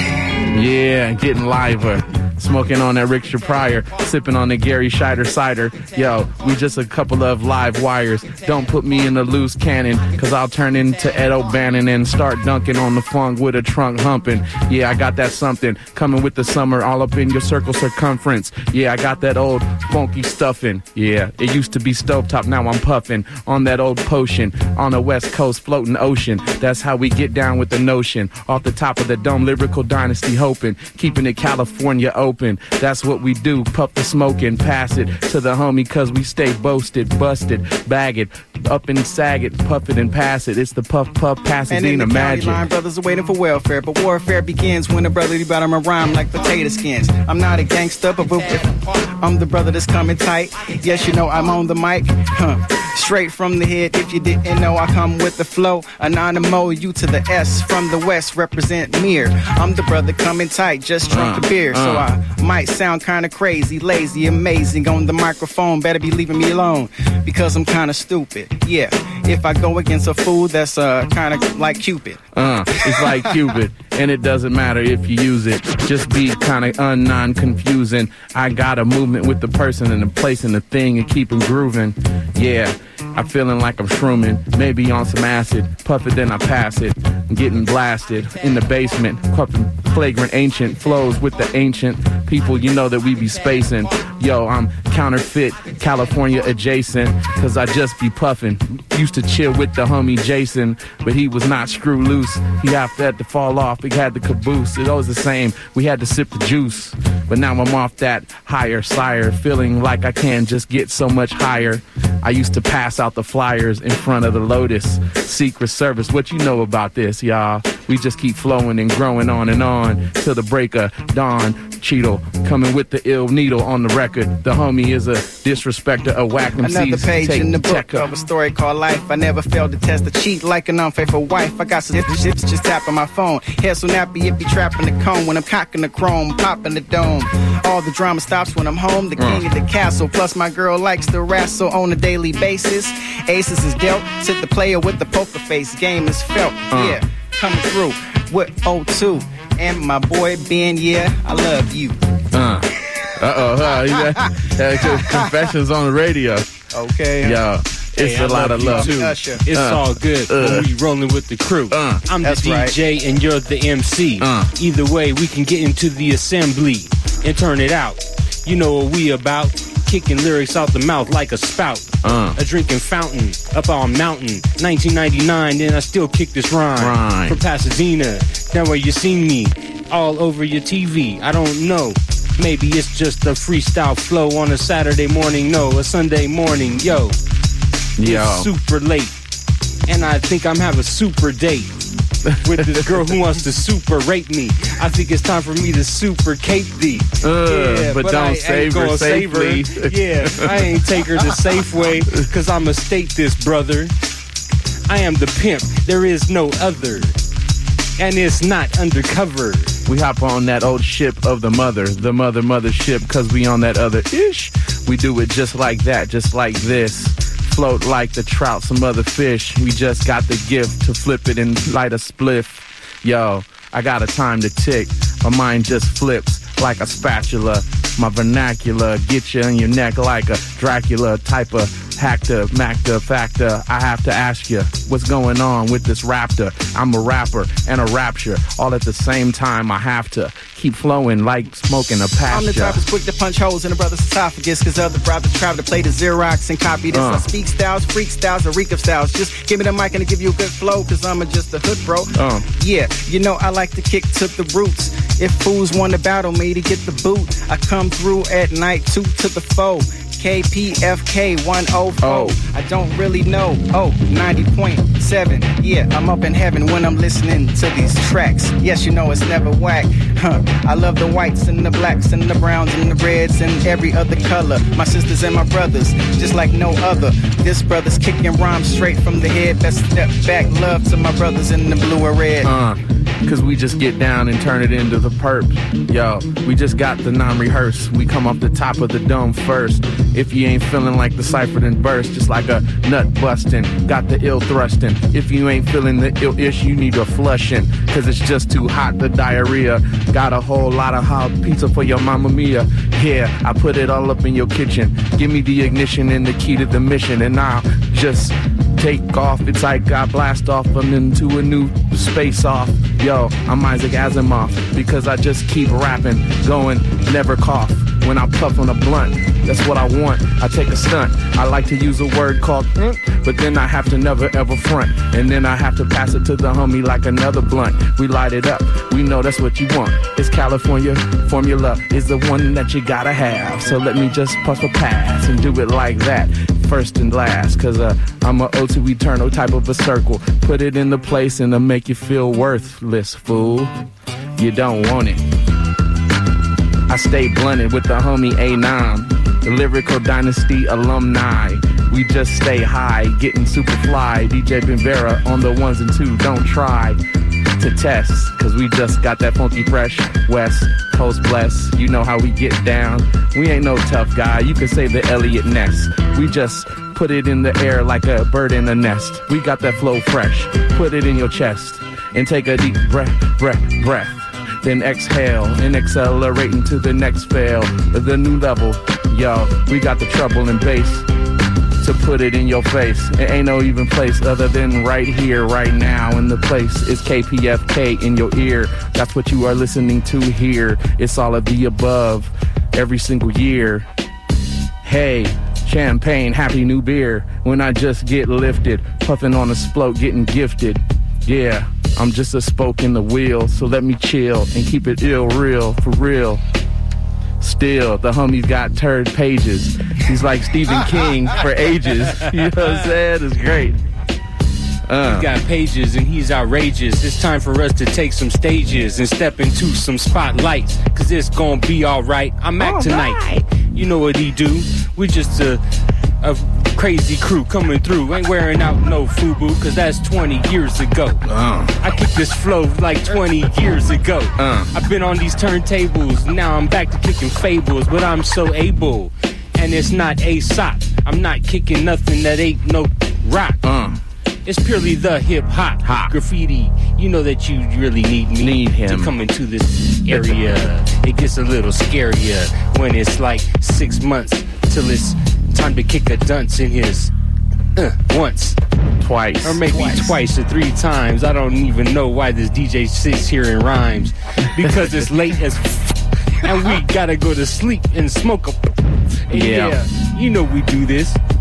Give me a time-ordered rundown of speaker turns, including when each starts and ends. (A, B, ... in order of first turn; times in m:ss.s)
0:00.5-0:42.7 A
0:41.7-1:12.2 B
1:01.1-1:02.1 A
1:12.3-2:08.1 A
2:06.6-2:32.0 B
2:19.2-2:19.4 A
2:26.7-2:27.0 A
2:32.3-2:36.5 A
2:36.7-2:37.4 B
2:37.2-2:40.7 A
2:38.0-3:07.2 C
2:38.7-2:39.4 B
2:41.7-2:42.0 A
2:42.2-2:42.7 B
2:44.2-2:44.5 A
2:52.0-2:52.4 A
2:56.8-2:57.4 A
3:08.0-3:08.5 A
3:08.0-3:09.1 C
3:09.9-3:11.7 C
3:12.3-3:13.2 A
3:12.4-3:23.9 C
3:17.2-3:20.6 A
3:24.9-3:27.1 C
3:28.0-3:29.7 C
3:29.9-4:02.8 A
4:02.3-4:42.5 B
4:06.9-4:07.3 A
4:12.1-4:12.5 A
4:22.0-4:22.4 A
4:42.4-5:43.7 A
5:44.4-5:45.2 A
5:46.9-5:57.0 A
5:57.6-6:21.0 A
6:21.8-6:33.9 A
6:34.8-6:46.4 A
6:47.4-6:53.8 A
6:54.9-6:55.3 A
6:55.0-7:05.6 C
7:06.2-7:11.2 C
7:11.2-7:11.8 A
7:11.8-7:23.6 C
7:14.4-7:14.7 A
7:23.6-7:24.0 A
7:24.4-7:37.1 C
7:25.8-7:26.1 A
7:28.4-7:29.2 A
7:30.1-7:30.7 A
7:37.8-7:38.6 C
7:39.0-7:40.2 A
7:39.4-7:45.8 C
7:44.6-7:45.1 A
7:46.4-7:48.7 C
7:49.3-7:51.2 C
7:49.3-7:49.8 A